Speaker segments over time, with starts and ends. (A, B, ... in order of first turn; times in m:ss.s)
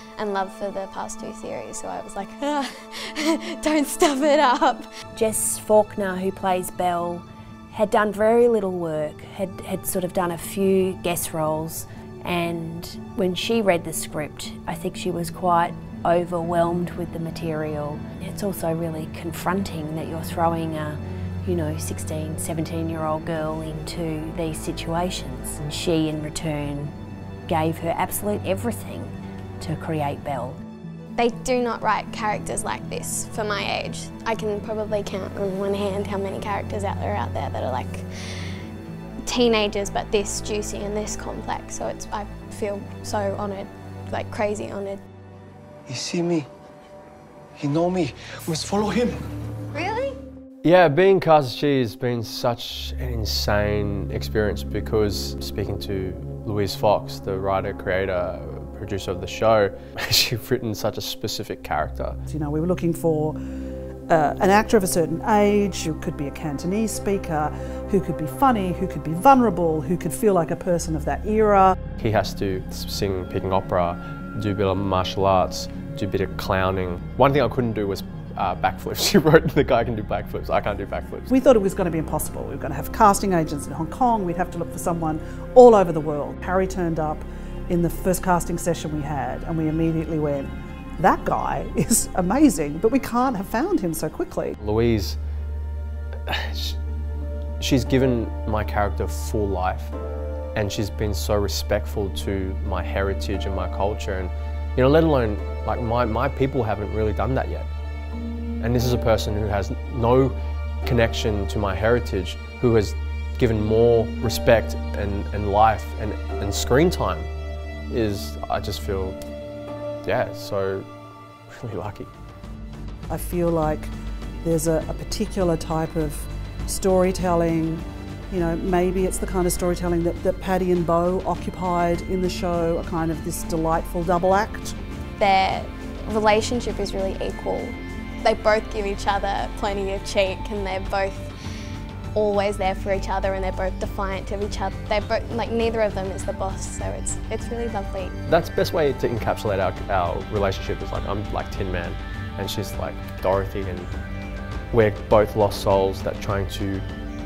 0:00.2-0:04.9 A
0:05.1-0:26.9 B
0:27.5-0:30.6 B
0:31.2-0:38.5 A
0:39.2-0:45.0 A
0:45.9-0:46.5 C
0:47.6-0:49.3 C
0:49.8-0:50.1 A
0:50.6-1:02.2 D
1:02.3-1:03.4 E
1:04.1-1:11.7 E
1:12.0-1:21.3 D
1:21.3-1:34.6 E
1:34.6-1:35.2 D
1:36.3-1:36.8 D
1:37.6-1:39.9 D
1:40.6-1:47.7 D
1:48.6-1:57.3 D
1:57.9-1:59.2 D
2:00.0-2:00.9 D
2:01.5-2:02.1 D
2:03.1-2:03.9 E
2:04.4-2:14.8 E
2:15.2-2:21.3 A
2:22.1-2:28.2 A
2:28.2-2:33.9 D
2:34.7-2:36.9 D